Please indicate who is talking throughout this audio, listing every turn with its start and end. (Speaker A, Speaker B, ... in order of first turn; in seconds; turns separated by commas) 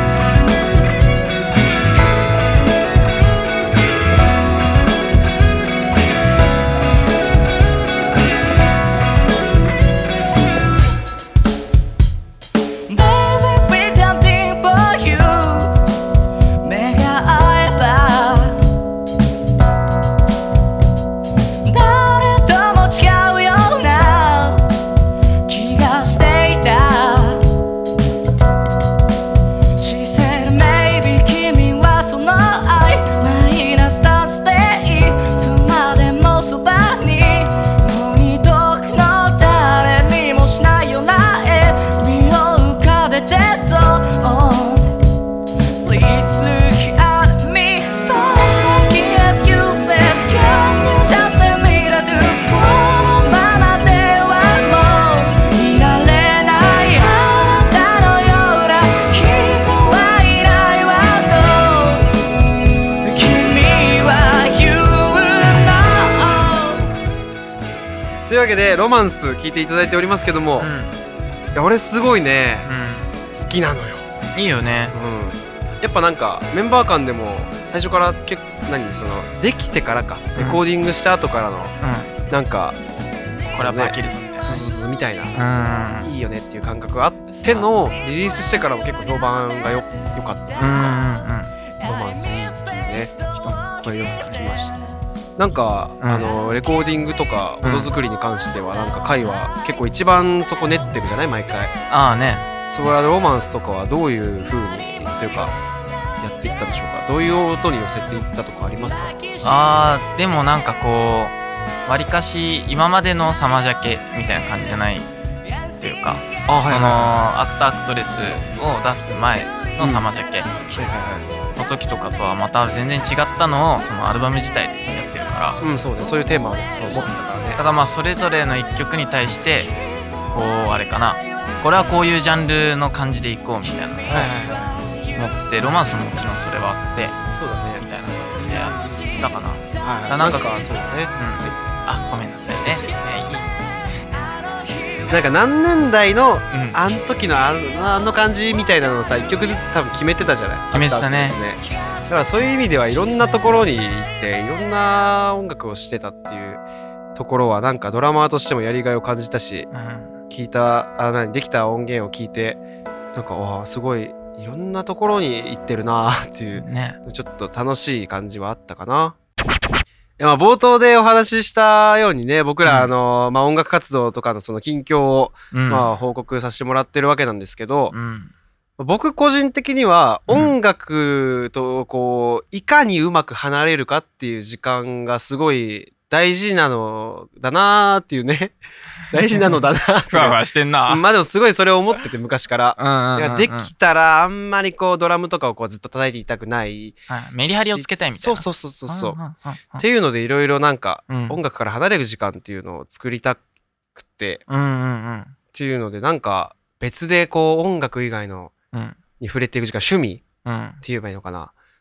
Speaker A: 12.9-15.8, Speaker A: 16.6-18.6, Speaker A: 21.6-24.6, Speaker A: 25.5-27.5, Speaker A: 29.8-45.0, Speaker A: 45.8-62.1, Speaker A: 63.0-66.9, Speaker B: 68.3-70.7, Speaker C: 70.6-70.9, Speaker B: 71.5-72.7, Speaker C: 72.7-73.1, Speaker B: 73.3-74.1, Speaker C: 74.3-75.0, Speaker B: 74.9-81.7, Speaker C: 80.4-80.6, Speaker C: 81.8-82.1, Speaker B: 82.3-82.8, Speaker C: 83.5-84.7, Speaker B: 83.5-85.4, Speaker C: 85.3-86.1, Speaker B: 86.0-91.0, Speaker C: 90.6-91.5, Speaker B: 91.8-93.2, Speaker C: 93.3-93.7, Speaker B: 93.8-94.8, Speaker B: 95.4-101.7, Speaker C: 96.0-96.3, Speaker C: 97.6-97.9, Speaker C: 101.9-102.5, Speaker B: 102.7-105.5, Speaker B: 106.2-109.4, Speaker C: 109.4-115.1, Speaker C: 115.8-120.5, Speaker B: 116.5-117.2, Speaker B: 119.8-120.0, Speaker B: 120.7-121.3, Speaker C: 121.6-125.6, Speaker B: 125.6-127.6, Speaker C: 126.9-129.7, Speaker C: 130.3-134.6, Speaker B: 134.1-134.7, Speaker C: 135.1-137.2, Speaker B: 137.3-137.9, Speaker C: 137.8-140.6, Speaker B: 138.6-139.0, Speaker B: 139.8-141.6, Speaker C: 141.2-143.5, Speaker B: 142.6-143.0, Speaker B: 145.1-156.6, Speaker C: 146.5-146.8, Speaker C: 150.7-151.4, Speaker B: 157.2-159.7, Speaker C: 159.7-160.1, Speaker B: 160.3-162.6, Speaker B: 163.1-169.2, Speaker C: 166.6-167.0, Speaker B: 170.2-177.9, Speaker C: 172.7-172.9, Speaker C: 175.5-175.9, Speaker C: 177.9-178.3, Speaker B: 178.8-197.0, Speaker C: 189.4-191.0, Speaker C: 192.8-193.7, Speaker C: 197.1-199.8, Speaker B: 197.5-199.2, Speaker B: 199.8-203.4, Speaker C: 201.1-201.4, Speaker B: 204.0-204.4, Speaker C: 204.5-205.4, Speaker B: 205.5-208.5, Speaker C: 208.7-209.0, Speaker B: 209.2-210.2, Speaker C: 210.4-210.8, Speaker B: 210.8-211.5